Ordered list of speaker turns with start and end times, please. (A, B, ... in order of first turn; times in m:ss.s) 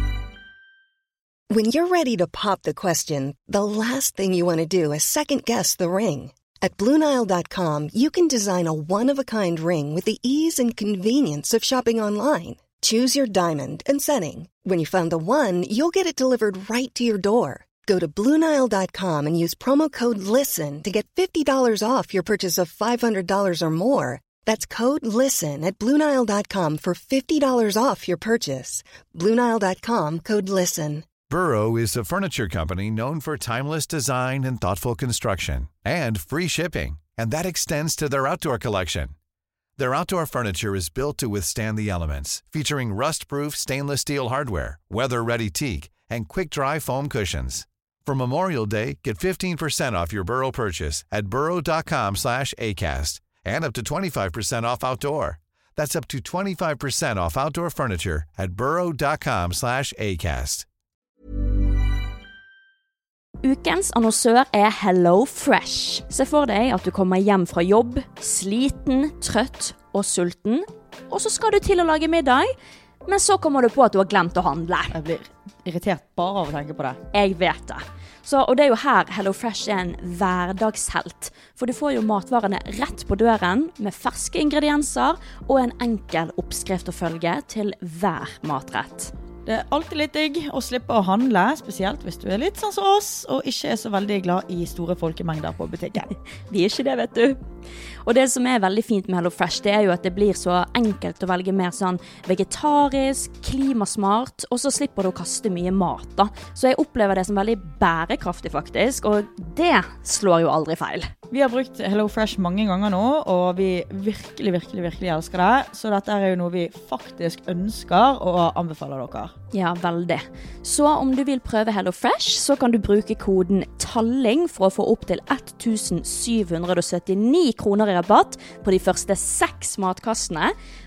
0:01.5-0:31.1 A
0:31.3-0:39.1 B
0:39.8-1:00.7 B
1:03.4-1:12.5 C
1:13.1-1:15.0 C
1:14.9-1:17.0 D
1:17.1-1:29.1 C
1:29.4-1:36.1 D
1:36.5-1:37.4 C
1:38.0-1:51.1 C
1:51.3-1:59.3 D
1:59.5-2:10.5 C